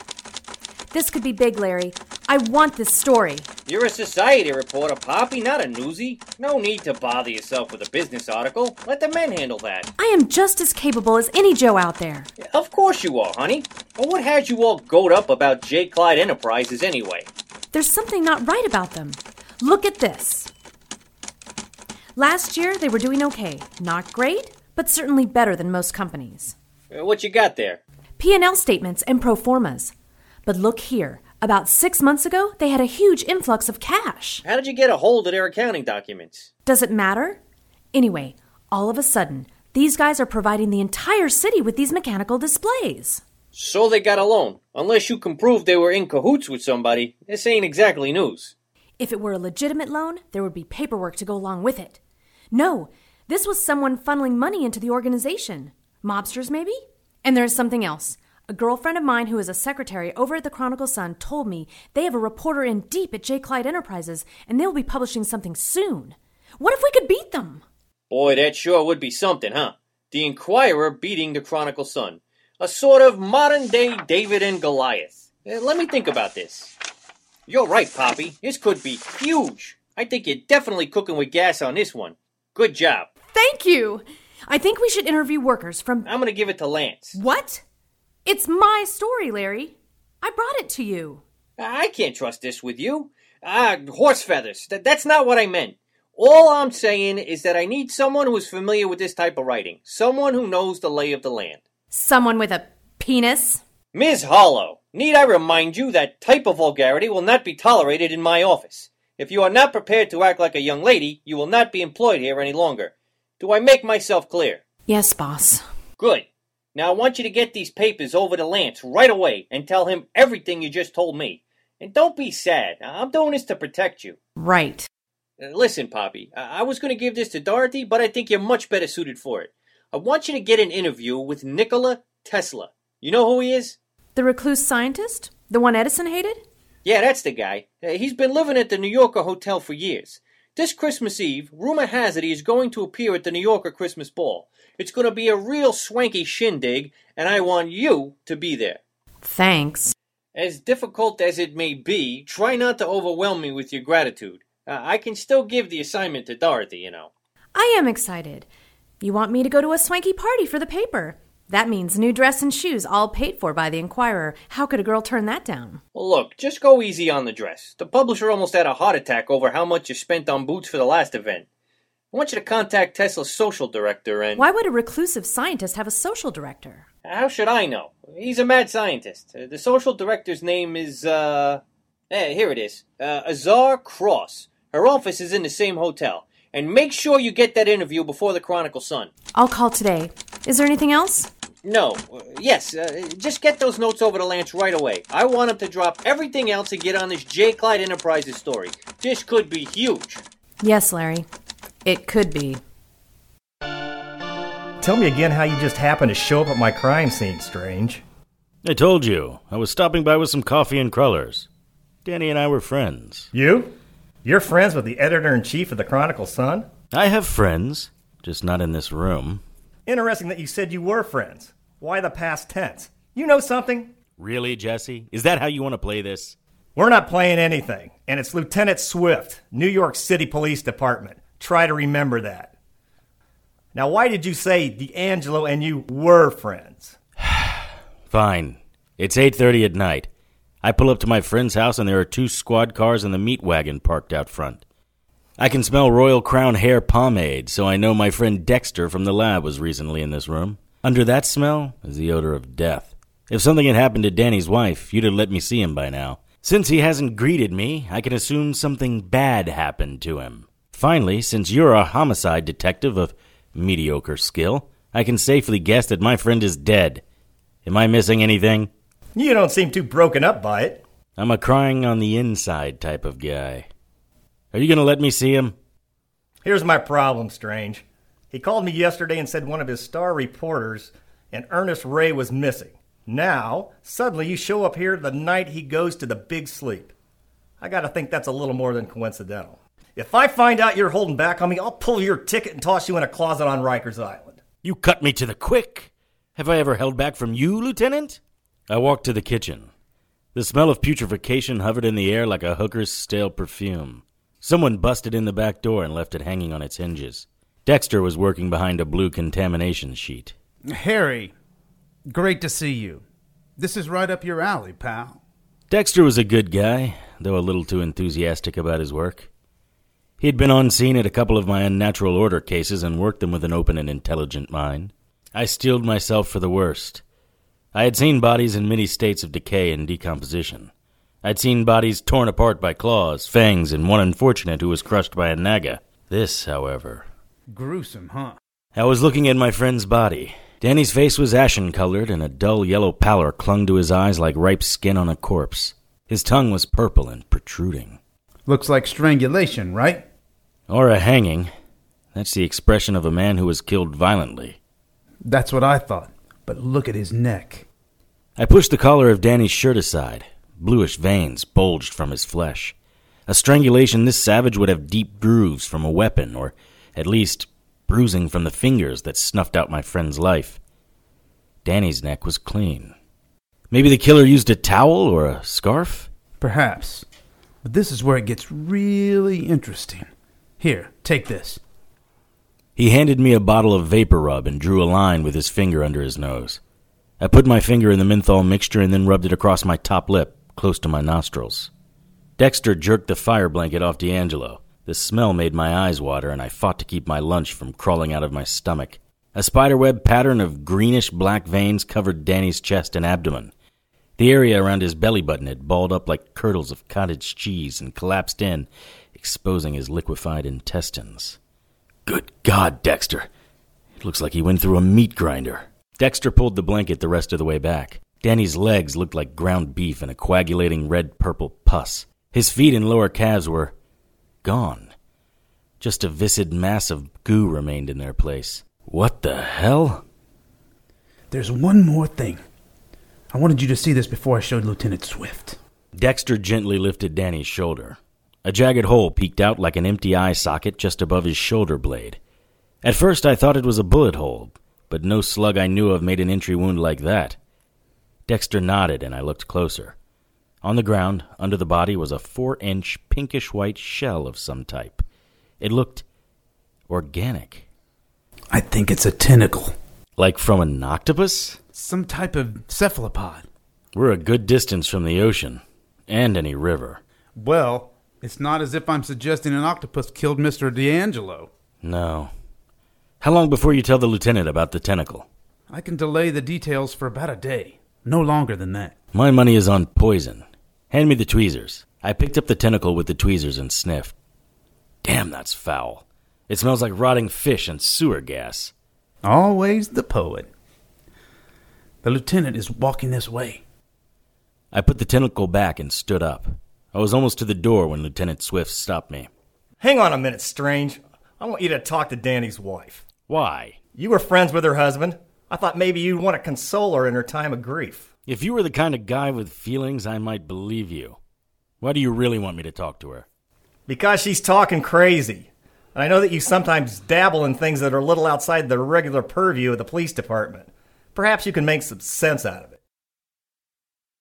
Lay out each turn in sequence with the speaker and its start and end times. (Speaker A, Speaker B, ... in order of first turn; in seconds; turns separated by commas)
Speaker A: 0.9-3.5, Speaker B: 3.7-9.9, Speaker A: 10.0-12.3, Speaker B: 12.4-17.3, Speaker A: 17.7-20.5, Speaker A: 22.2-26.6, Speaker B: 26.9-27.8, Speaker A: 28.2-29.9, Speaker A: 30.5-34.4, Speaker B: 34.4-36.5, Speaker A: 36.7-37.4, Speaker A: 37.9-43.2, Speaker B: 43.5-48.5, Speaker A: 49.0-52.0, Speaker A: 52.5-67.6, Speaker B: 68.1-76.7, Speaker B: 77.5-83.1, Speaker A: 83.3-86.1, Speaker B: 86.0-87.2, Speaker A: 87.2-87.6, Speaker A: 88.3-91.2, Speaker B: 91.6-101.6, Speaker A: 101.9-103.6, Speaker B: 103.9-114.6, Speaker A: 114.9-115.7, Speaker B: 116.0-124.2, Speaker A: 124.4-124.9, Speaker B: 125.4-133.8, Speaker A: 134.2-136.4, Speaker B: 136.8-148.8, Speaker A: 149.2-149.9, Speaker B: 150.3-157.1, Speaker A: 157.6-158.5, Speaker A: 159.0-165.8, Speaker B: 165.9-171.5, Speaker B: 172.1-174.4, Speaker A: 174.4-176.9, Speaker B: 177.1-189.1, Speaker A: 189.3-191.3, Speaker B: 191.7-200.2, Speaker A: 200.6-201.3, Speaker A: 201.8-202.6, Speaker C: 204.8-208.0, Speaker D: 208.6-211.5, Speaker D: 212.1-213.3, Speaker C: 213.3-213.7, Speaker C: 214.2-216.7, Speaker D: 216.9-219.4, Speaker C: 219.9-223.9, Speaker D: 224.2-226.4, Speaker C: 226.8-232.5, Speaker C: 233.7-236.9, Speaker D: 237.2-240.1, Speaker D: 240.6-244.6, Speaker D: 245.4-267.0, Speaker D: 267.6-268.7, Speaker C: 269.2-270.8, Speaker D: 271.2-273.7, Speaker D: 274.5-275.6, Speaker C: 276.4-286.9, Speaker C: 287.6-294.4, Speaker D: 294.6-299.7, Speaker D: 300.3-310.3, Speaker E: 310.7-311.3, Speaker E: 312.1-313.0, Speaker E: 313.6-315.2, Speaker D: 315.7-319.3, Speaker D: 320.2-327.0, Speaker D: 327.7-330.7, Speaker D: 331.2-337.1, Speaker E: 337.5-338.4, Speaker D: 338.8-348.0, Speaker E: 348.5-350.0, Speaker D: 350.7-351.5, Speaker D: 352.1-354.6, Speaker E: 355.2-357.6, Speaker D: 358.4-362.8, Speaker D: 363.3-370.6, Speaker D: 371.6-372.9, Speaker D: 373.7-376.1, Speaker E: 376.4-377.1, Speaker E: 377.6-381.6, Speaker D: 382.8-386.6, Speaker D: 387.2-391.7, Speaker D: 392.4-403.5, Speaker D: 404.2-411.4, Speaker D: 412.1-413.3, Speaker D: 414.0-423.7, Speaker D: 424.4-424.9, Speaker D: 425.8-430.0, Speaker E: 431.3-432.4, Speaker E: 433.3-435.6, Speaker D: 435.9-442.2, Speaker D: 442.8-447.4, Speaker D: 448.3-449.9, Speaker D: 450.6-455.1, Speaker D: 455.6-456.1, Speaker D: 456.9-457.7, Speaker E: 458.5-459.8, Speaker D: 460.2-461.6, Speaker E: 461.7-463.5, Speaker D: 463.9-467.0, Speaker E: 467.4-471.5, Speaker D: 471.8-472.3, Speaker D: 473.2-475.3, Speaker E: 475.7-479.0, Speaker D: 479.1-484.1, Speaker D: 485.0-488.7, Speaker E: 489.2-490.5, Speaker E: 492.0-493.6, Speaker D: 494.7-499.3, Speaker C: 499.8-503.0, Speaker D: 503.3-503.8, Speaker C: 503.9-508.1, Speaker D: 508.3-511.2, Speaker D: 511.8-513.3, Speaker C: 513.9-522.8